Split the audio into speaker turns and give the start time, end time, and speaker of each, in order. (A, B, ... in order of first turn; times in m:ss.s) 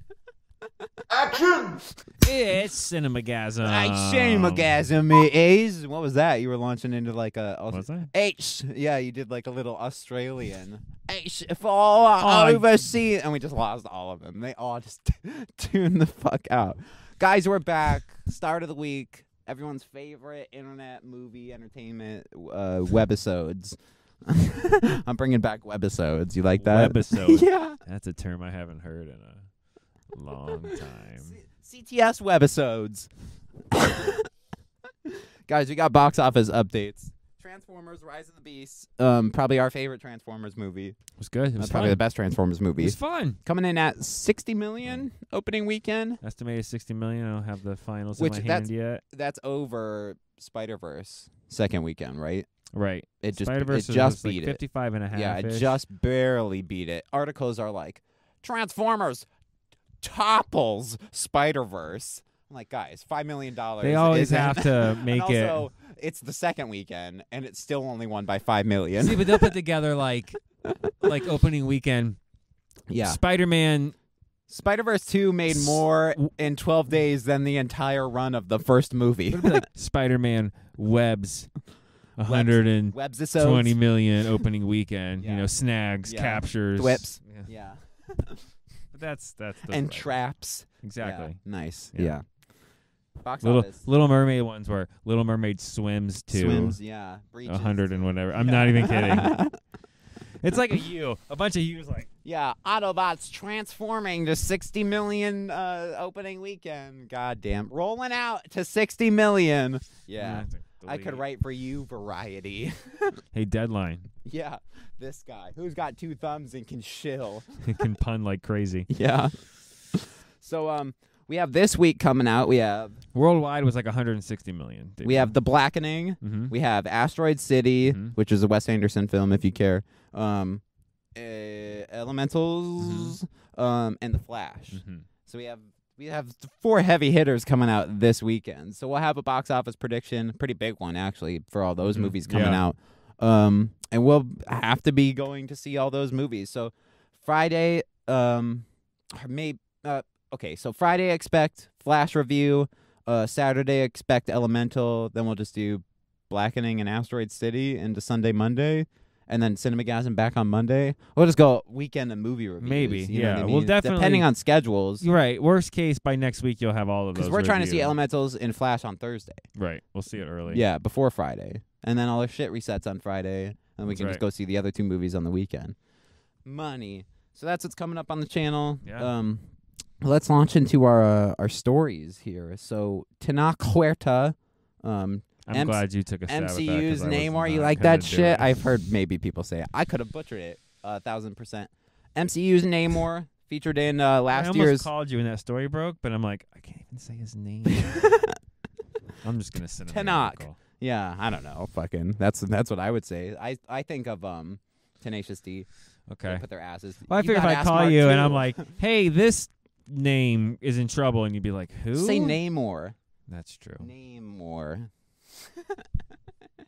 0:01.1-0:02.3 A
0:02.2-0:04.7 B
0:03.6-0:27.8 A
0:07.7-0:08.1 B
0:12.2-0:12.8 B
0:26.5-0:29.4 B
0:30.1-0:31.4 B
0:30.7-0:33.1 A
0:33.7-0:34.2 A
0:35.5-0:41.0 A
0:41.2-0:42.0 B
0:41.6-0:46.2 A
0:42.8-0:43.4 B
0:46.2-0:49.0 B
0:48.2-0:52.5 A
0:52.7-0:55.8 B
0:53.2-0:54.6 A
0:55.1-0:59.2 A
1:00.0-1:09.5 A
1:03.8-1:05.6 B
1:09.0-1:10.4 B
1:11.0-1:12.2 B
1:12.9-1:13.2 A
1:13.0-1:13.9 B
1:14.5-1:19.6 A
1:15.5-1:16.2 B
1:19.3-1:21.5 B
1:22.2-1:27.5 B
1:22.2-1:23.8 A
1:25.2-1:25.5 A
1:26.0-1:28.4 A
1:28.9-1:30.1 B
1:29.7-1:32.2 A
1:30.8-1:31.4 B
1:33.2-1:33.8 A
1:33.4-1:36.8 B
1:36.3-1:39.5 A
1:37.4-1:39.4 B
1:40.4-1:42.1 B
1:42.2-1:53.2 A
1:50.2-1:51.2 B
1:53.3-1:54.1 B
1:54.2-1:57.9 A
1:57.6-1:58.9 B
1:58.9-1:59.3 A
1:59.9-2:03.0 A
2:03.1-2:05.3 B
2:05.0-2:10.6 A
2:06.2-2:06.5 B
2:07.8-2:08.2 B
2:11.2-2:45.0 A
2:12.8-2:13.2 B
2:14.7-2:15.1 B
2:21.9-2:22.6 B
2:42.6-2:44.2 B
2:45.0-2:48.0 B
2:47.1-2:49.4 A
2:49.5-2:50.6 B
2:50.5-2:55.7 A
2:53.9-2:54.2 B
2:56.4-2:59.4 A
2:58.8-2:59.1 B
3:00.0-3:14.9 A
3:05.4-3:08.5 B
3:14.3-3:18.1 B
3:17.8-3:18.3 A
3:19.2-3:20.6 B
3:19.9-3:25.7 A
3:26.1-3:26.4 B
3:26.2-3:28.6 A
3:27.1-3:32.4 B
3:31.9-3:33.0 A
3:33.3-3:33.9 B
3:33.8-3:34.9 A
3:35.6-3:35.8 A